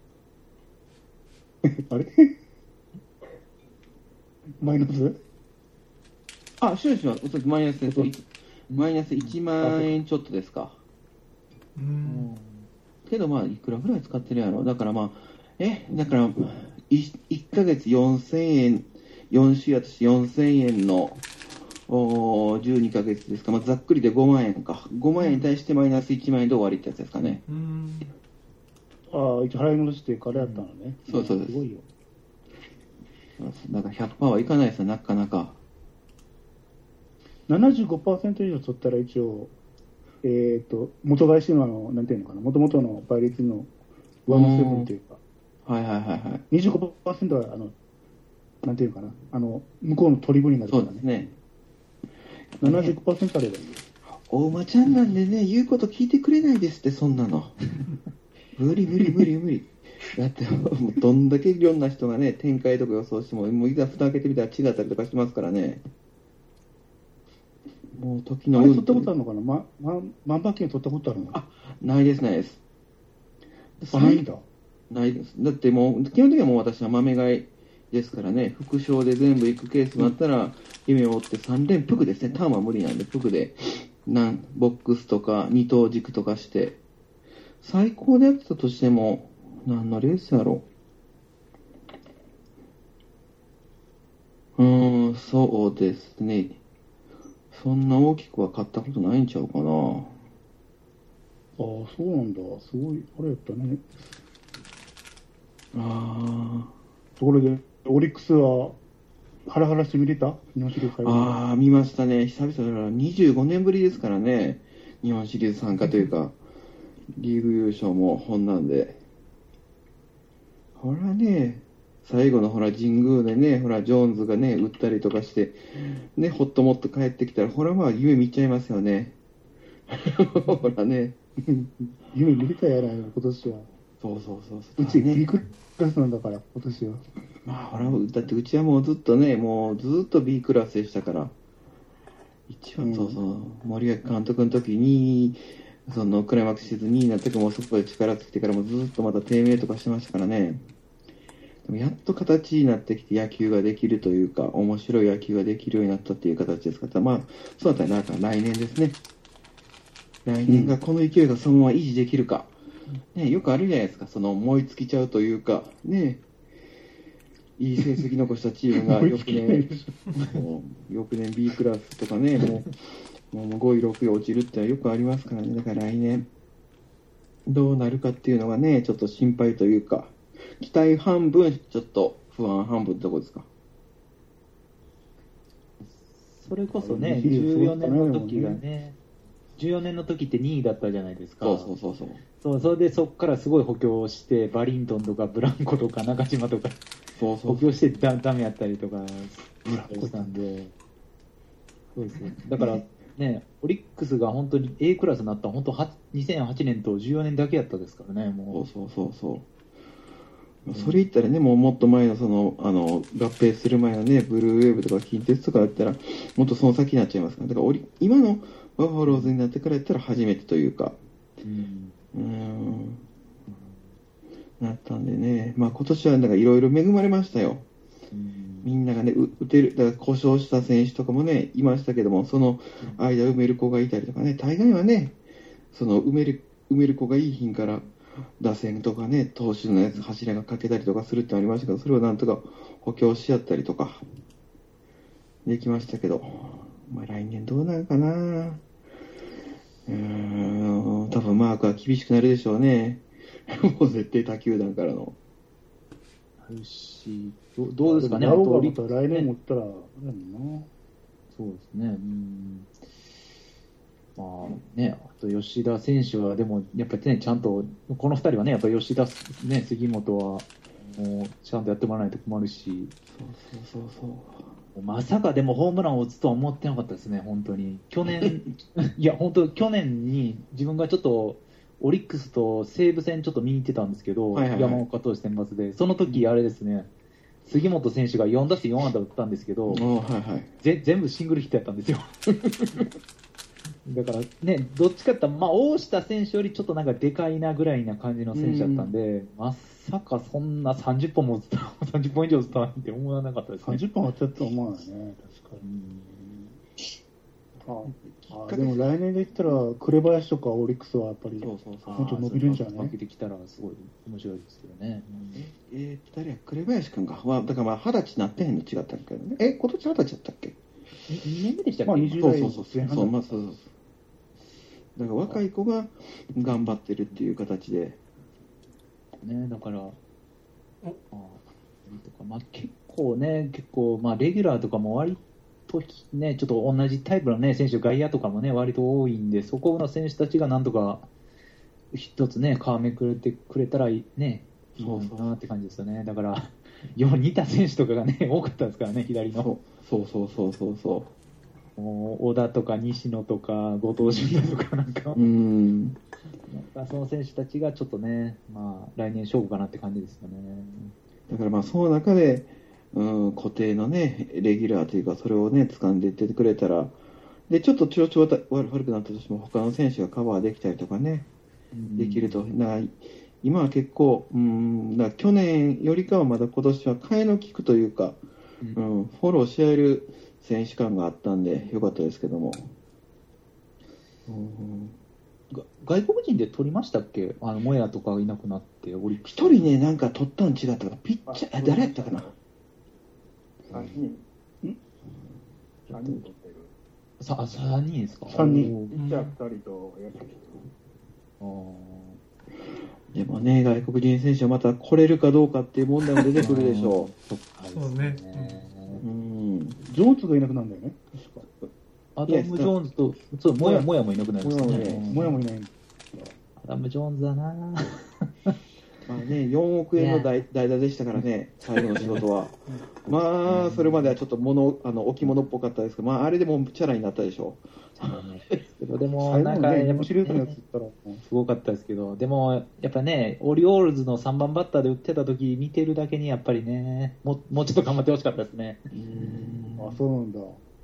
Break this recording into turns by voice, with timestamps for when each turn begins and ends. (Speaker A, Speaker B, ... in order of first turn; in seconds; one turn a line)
Speaker A: 1.7-2.3
Speaker A: 4.6-5.2
Speaker B: 6.6-10.8
Speaker C: 8.7-9.3
Speaker D: 11.8-12.3
Speaker C: 12.0-12.7
Speaker B: 13.1-21.2
Speaker B: 21.9-27.4
Speaker D: 25.2-25.5
Speaker D: 27.4-28.1
Speaker A: 29.1-31.9
Speaker C: 30.3-30.6
Speaker B: 31.1-31.6
Speaker B: 33.4-35.6
Speaker A: 37.5-39.5
Speaker A: 40.2-43.7
Speaker A: 44.2-45.2
Speaker B: 44.3-44.9
Speaker B: 45.6-46.4
Speaker A: 46.5-47.7
Speaker A: 48.6-51.0
Speaker B: 50.7-51.3
Speaker B: 52.6-53.0
Speaker A: 52.6-53.8
Speaker B: 54.0-57.6
Speaker B: 58.5-65.8
Speaker B: 67.9-69.1
Speaker A: 68.5-71.4
Speaker B: 71.3-72.6
Speaker B: 73.8-74.2
Speaker A: 73.9-74.4
Speaker B: 74.9-86.8
Speaker B: 87.6-90.6
Speaker B: 94.6-96.6
Speaker B: 97.5-100.1
Speaker A: 101.6-103.8
Speaker B: 105.7-106.7
Speaker A: 107.2-108.8
Speaker A: 109.5-111.3
Speaker B: 111.0-116.3
Speaker B: 117.1-119.0
Speaker B: 120.8-125.6
Speaker B: 126.1-129.2
Speaker B: 129.9-131.2
Speaker A: 131.4-133.6
Speaker B: 134.0-135.2
Speaker A: 134.8-137.0
Speaker B: 137.4-141.3
Speaker B: 142.5-150.6
Speaker A: 142.8-143.2
Speaker B: 151.6-159.0
Speaker B: 160.2-162.5
Speaker A: 160.5-160.7
Speaker B: 163.1-166.2
Speaker B: 167.6-172.7
Speaker A: 168.8-169.9
Speaker B: 173.3-176.3
Speaker B: 177.4-183.5
Speaker C: 185.8-189.0
Speaker A: 186.8-188.6
Speaker C: 189.6-191.7
Speaker B: 191.4-192.2
Speaker C: 192.4-196.8
Speaker B: 197.2-197.7
Speaker C: 197.4-200.7
Speaker A: 199.6-200.4
Speaker C: 201.9-208.6
Speaker B: 202.5-202.8
Speaker B: 208.5-209.4
Speaker B: 210.7-221.0
Speaker C: 210.7-211.1
Speaker C: 219.0-219.3
Speaker C: 221.4-221.9
Speaker B: 222.1-223.0
Speaker C: 223.5-223.9
Speaker B: 224.6-227.6
Speaker C: 228.1-228.7
Speaker B: 228.6-235.2
Speaker B: 235.7-237.9
Speaker B: 238.4-244.0
Speaker B: 245.4-248.6
Speaker B: 249.9-255.2
Speaker C: 256.4-259.3
Speaker A: 257.9-260.7
Speaker C: 261.3-262.7
Speaker C: 264.1-272.9
Speaker B: 273.1-274.5
Speaker C: 274.7-286.9
Speaker B: 284.3-284.8
Speaker B: 286.1-286.3
Speaker C: 287.4-289.9
Speaker B: 289.7-290.5
Speaker C: 290.6-292.2
Speaker C: 293.8-303.8
Speaker B: 298.3-298.9
Speaker A: 303.6-305.6
Speaker C: 305.6-306.4
Speaker A: 307.6-312.9
Speaker B: 307.8-308.8
Speaker B: 311.4-312.6
Speaker C: 311.8-315.4
Speaker B: 315.3-320.6
Speaker C: 321.1-322.6
Speaker A: 321.9-323.1
Speaker B: 322.2-323.7
Speaker B: 324.9-328.0
Speaker C: 329.2-330.0
Speaker C: 331.1-341.1
Speaker C: 341.9-349.5
Speaker B: 344.8-345.4
Speaker B: 349.3-351.1
Speaker C: 351.8-355.2
Speaker B: 354.0-354.5
Speaker B: 355.1-356.0
Speaker C: 356.5-360.9
Speaker B: 361.3-366.9
Speaker B: 367.5-371.3
Speaker C: 371.7-372.4
Speaker B: 371.9-378.2
Speaker B: 378.7-382.7
Speaker B: 384.3-384.9
Speaker C: 385.5-389.7
Speaker B: 389.2-392.3
Speaker E: 391.3-392.4
Speaker E: 393.7-394.2
Speaker E: 395.9-396.7
Speaker C: 395.9-396.2
Speaker C: 397.2-398.9
Speaker A: 398.3-398.7
Speaker E: 398.3-400.6
Speaker D: 398.9-399.3
Speaker C: 401.4-402.2
Speaker B: 403.1-407.1
Speaker C: 406.4-409.0
Speaker D: 407.7-408.6
Speaker B: 409.0-409.9
Speaker A: 409.9-411.4
Speaker C: 412.1-415.3
Speaker B: 412.3-412.7
Speaker A: 413.6-413.9
Speaker B: 414.4-415.2
Speaker A: 414.7-416.3
Speaker C: 416.6-418.3
Speaker B: 419.0-428.2
Speaker C: 419.9-420.3
Speaker C: 421.9-422.2
Speaker C: 423.4-424.2
Speaker C: 428.0-430.5
Speaker A: 429.2-431.2
Speaker C: 431.2-438.9
Speaker B: 438.9-440.0
Speaker A: 439.8-440.6